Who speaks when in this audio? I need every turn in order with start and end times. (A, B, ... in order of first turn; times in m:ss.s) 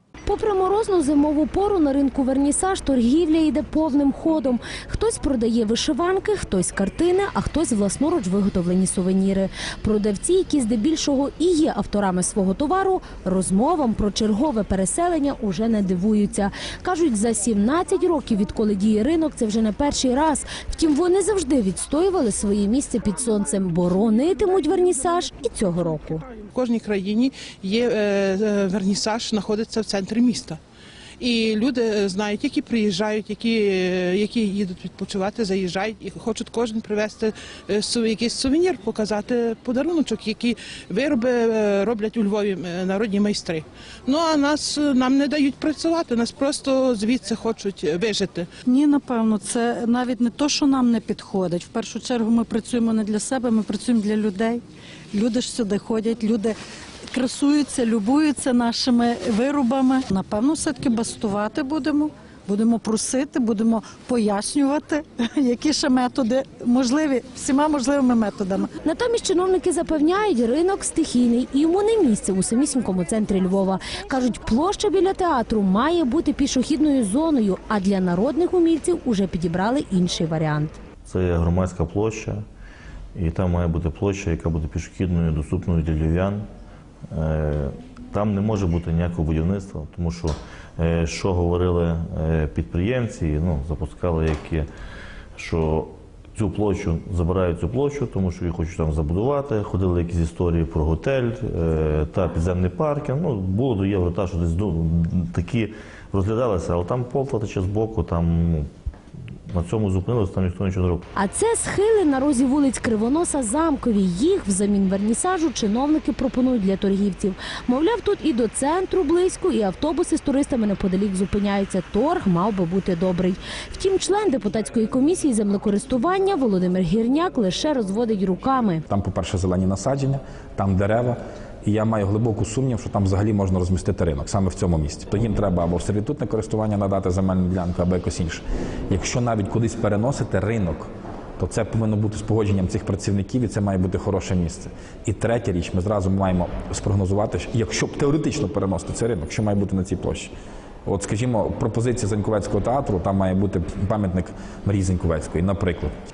0:00.3-0:26.2 A
0:26.5-0:30.6 B
0:31.2-0:48.5 B
0:48.7-0:54.6 C
0:55.1-0:56.6 C
0:57.1-1:08.7 C
1:08.8-1:20.8 A
1:21.1-1:22.4 D
1:23.2-1:26.5 D
1:27.1-1:34.7 D
1:35.4-1:48.7 D
1:49.5-1:51.0 D
1:51.1-2:08.8 A
2:08.9-2:30.3 E
2:30.8-2:35.9 E